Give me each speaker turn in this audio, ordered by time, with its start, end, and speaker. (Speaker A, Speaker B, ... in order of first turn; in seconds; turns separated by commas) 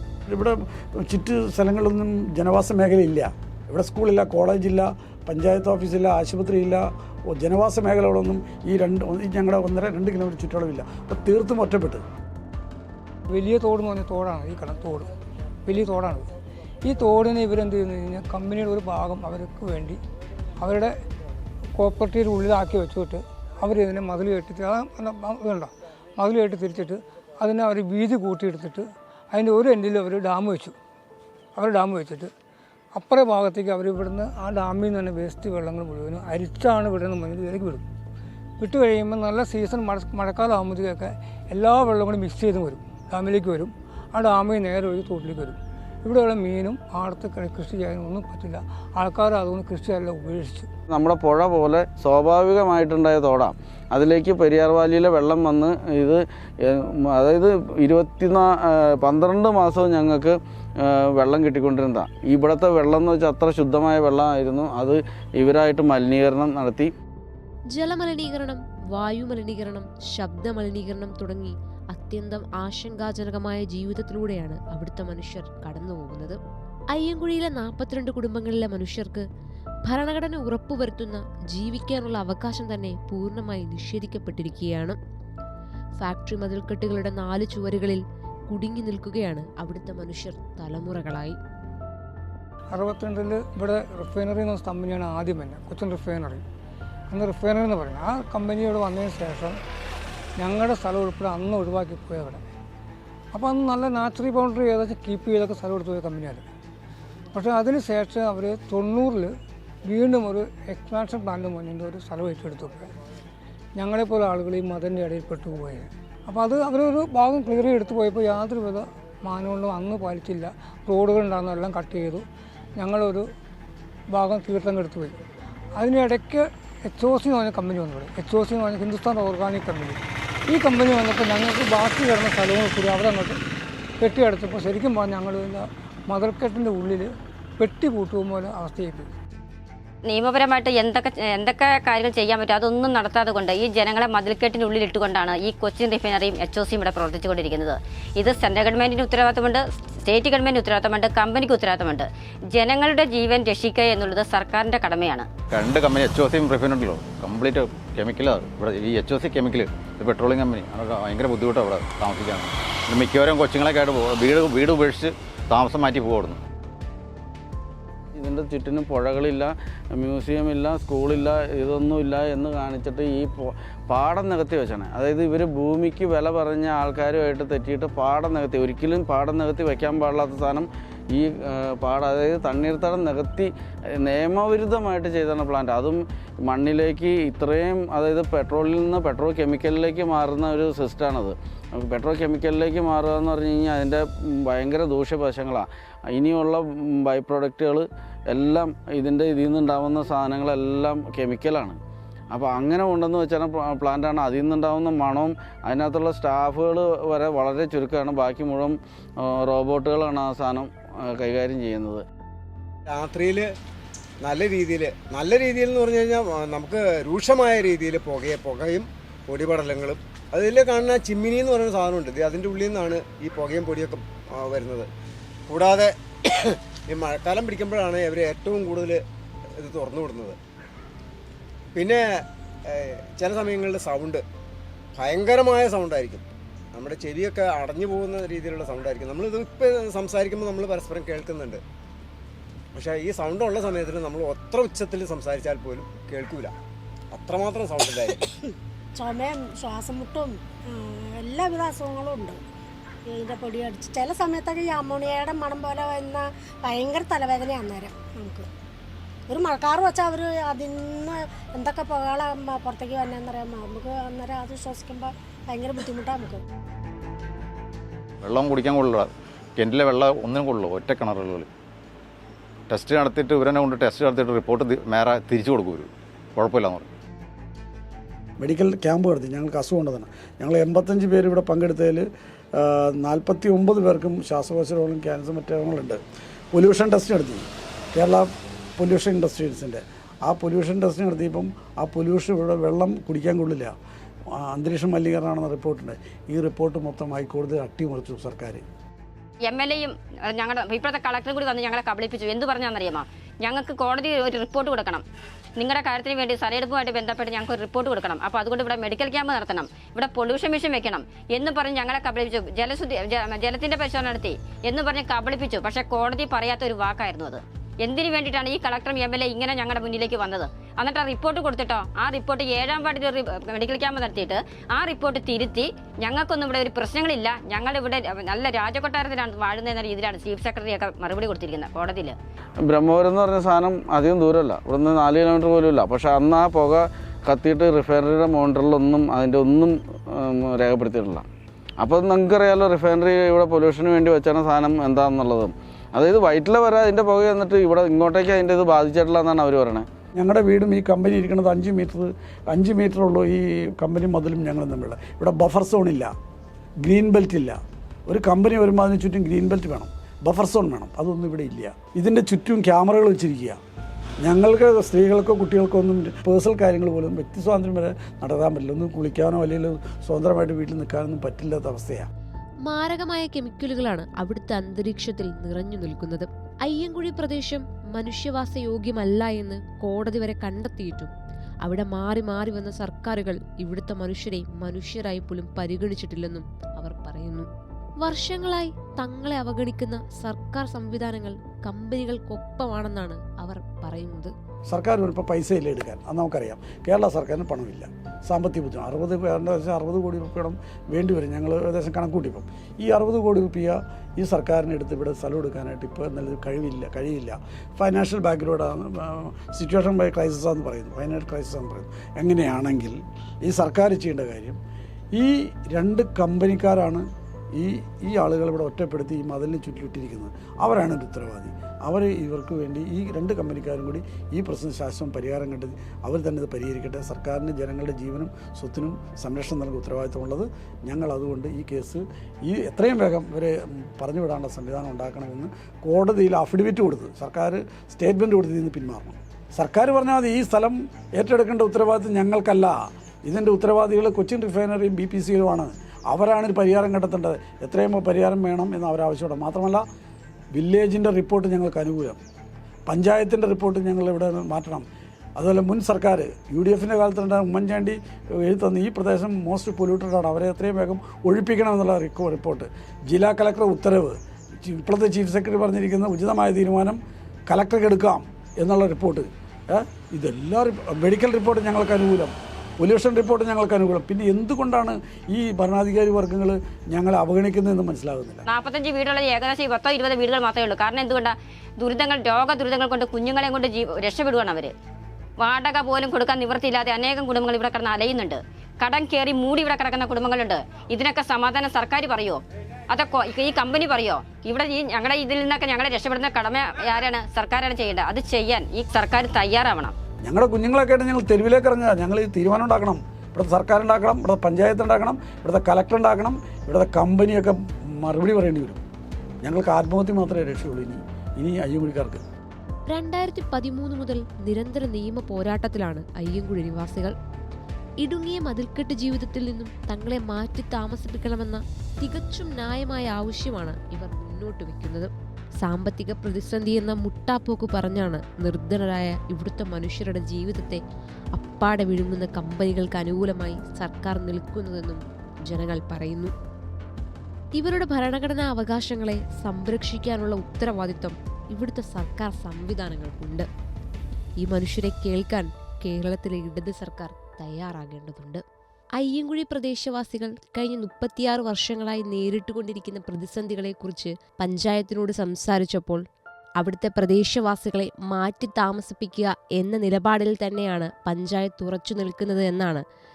Speaker A: 0.3-12.0, Speaker B: 13.3-15.1, Speaker B: 15.6-16.3, Speaker B: 16.8-20.0, Speaker B: 20.6-20.9, Speaker B: 21.8-30.7, Speaker B: 31.6-32.3, Speaker B: 32.9-37.8, Speaker B: 38.6-50.7, Speaker C: 50.9-66.9, Speaker D: 67.7-76.4, Speaker D: 76.9-79.2, Speaker D: 79.8-85.0, Speaker D: 86.0-91.4, Speaker B: 92.7-96.4, Speaker B: 97.1-99.6, Speaker B: 100.4-102.4, Speaker B: 103.3-106.4, Speaker B: 107.3-109.3, Speaker B: 109.8-112.9, Speaker B: 113.8-122.2, Speaker B: 122.8-123.3, Speaker B: 124.1-125.2, Speaker B: 125.8-133.4, Speaker B: 134.0-139.1, Speaker E: 140.0-155.3, Speaker F: 155.4-166.4, Speaker C: 168.1-201.8, Speaker C: 202.3-212.0, Speaker G: 212.9-213.5, Speaker G: 214.2-224.9, Speaker G: 225.5-225.9, Speaker G: 226.9-229.0, Speaker G: 229.6-230.4, Speaker G: 231.8-232.0, Speaker G: 232.8-234.2, Speaker G: 235.0-241.6, Speaker G: 242.7-246.5, Speaker G: 247.1-248.1, Speaker H: 248.9-252.4, Speaker H: 253.1-258.5, Speaker H: 259.3-266.4, Speaker F: 268.2-271.5, Speaker F: 272.7-276.9, Speaker A: 278.4-286.0, Speaker A: 286.5-293.7, Speaker A: 294.4-298.6, Speaker E: 299.4-305.0, Speaker E: 305.6-332.1, Speaker C: 332.6-341.2, Speaker C: 341.8-349.9, Speaker A: 350.2-356.1, Speaker A: 356.8-363.6, Speaker A: 364.2-372.1, Speaker D: 372.6-381.1, Speaker D: 381.6-387.5, Speaker D: 388.0-394.3, Speaker A: 394.7-414.6, Speaker A: 415.1-417.0, Speaker A: 417.6-449.8, Speaker A: 450.5-452.2, Speaker A: 452.9-454.9, Speaker A: 455.4-478.4, Speaker E: 478.5-484.7, Speaker E: 485.4-499.9, Speaker A: 500.2-508.8, Speaker A: 509.4-512.2, Speaker D: 512.9-517.1, Speaker D: 518.0-525.1, Speaker D: 525.6-530.8, Speaker D: 531.4-536.3, Speaker D: 537.5-543.5, Speaker D: 544.4-548.4, Speaker D: 549.0-556.0, Speaker D: 556.6-562.8